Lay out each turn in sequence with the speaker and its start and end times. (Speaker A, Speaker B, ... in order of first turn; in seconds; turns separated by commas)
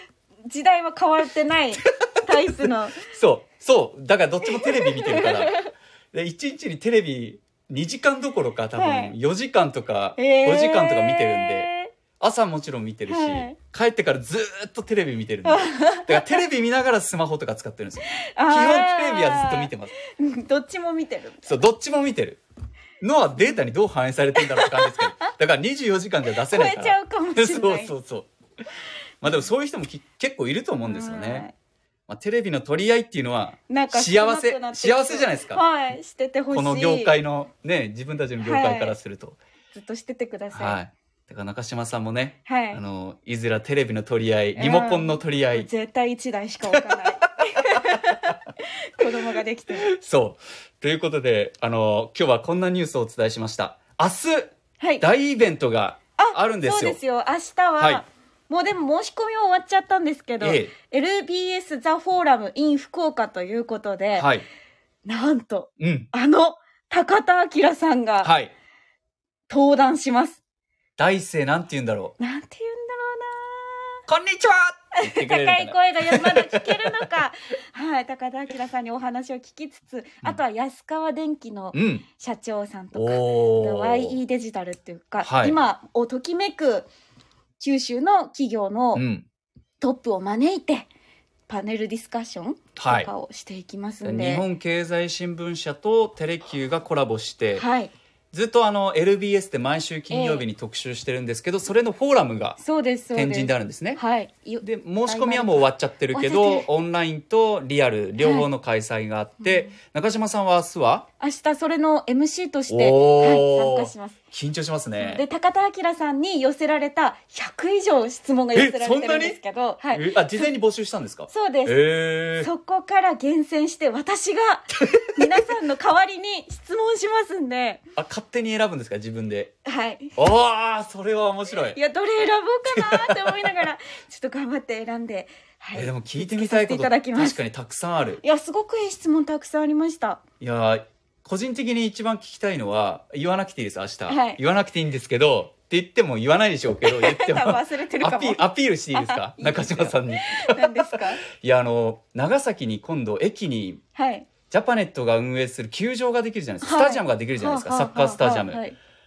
Speaker A: 0.5-3.0, Speaker B: 2.9-19.9, Speaker A: 4.5-5.7, Speaker A: 8.7-9.1, Speaker A: 10.2-11.9, Speaker A: 13.1-13.6, Speaker A: 15.4-16.4, Speaker A: 18.2-21.6, Speaker B: 21.4-22.4, Speaker B: 23.0-28.3, Speaker A: 24.4-25.1, Speaker A: 26.4-27.9, Speaker B: 29.2-31.5, Speaker A: 30.8-31.5, Speaker B: 32.1-35.6, Speaker A: 33.7-37.1, Speaker B: 36.5-39.4, Speaker A: 38.4-39.0, Speaker A: 39.7-40.8, Speaker B: 40.5-45.7, Speaker A: 42.5-42.8, Speaker A: 44.5-49.9, Speaker B: 46.7-47.0, Speaker B: 49.8-57.0, Speaker A: 56.2-64.3, Speaker B: 57.8-58.0, Speaker B: 60.4-60.7, Speaker B: 64.2-64.5, Speaker A: 65.0-68.3, Speaker B: 65.8-66.1, Speaker B: 68.2-68.5, Speaker A: 69.5-70.4, Speaker B: 71.0-72.1, Speaker A: 72.2-74.0, Speaker B: 74.1-77.1, Speaker A: 75.0-86.9, Speaker B: 81.7-82.0, Speaker B: 82.9-84.2, Speaker B: 85.2-85.6, Speaker A: 87.6-89.0, Speaker B: 88.9-89.2, Speaker A: 89.8-90.9, Speaker A: 91.5-94.5, Speaker B: 92.8-93.1, Speaker B: 94.0-97.7, Speaker A: 97.5-97.9, Speaker B: 98.3-102.6, Speaker A: 100.1-100.4, Speaker A: 102.6-106.7, Speaker B: 103.1-104.0, Speaker B: 104.6-111.0, Speaker A: 108.2-108.5, Speaker A: 109.4-109.7, Speaker A: 111.2-114.2, Speaker B: 112.7-115.2, Speaker A: 115.0-120.5, Speaker B: 118.5-119.4, Speaker B: 119.9-122.5, Speaker A: 121.3-121.8, Speaker A: 122.4-127.8, Speaker B: 124.8-125.5, Speaker B: 128.0-129.5, Speaker A: 129.7-130.2, Speaker B: 130.2-131.8, Speaker A: 131.7-137.4, Speaker B: 132.7-133.3, Speaker B: 135.7-138.2, Speaker A: 138.2-140.2, Speaker B: 140.4-153.8, Speaker A: 144.1-144.4, Speaker A: 146.8-148.4, Speaker A: 148.9-151.2, Speaker A: 153.9-154.3, Speaker B: 154.5-158.6, Speaker A: 156.6-158.8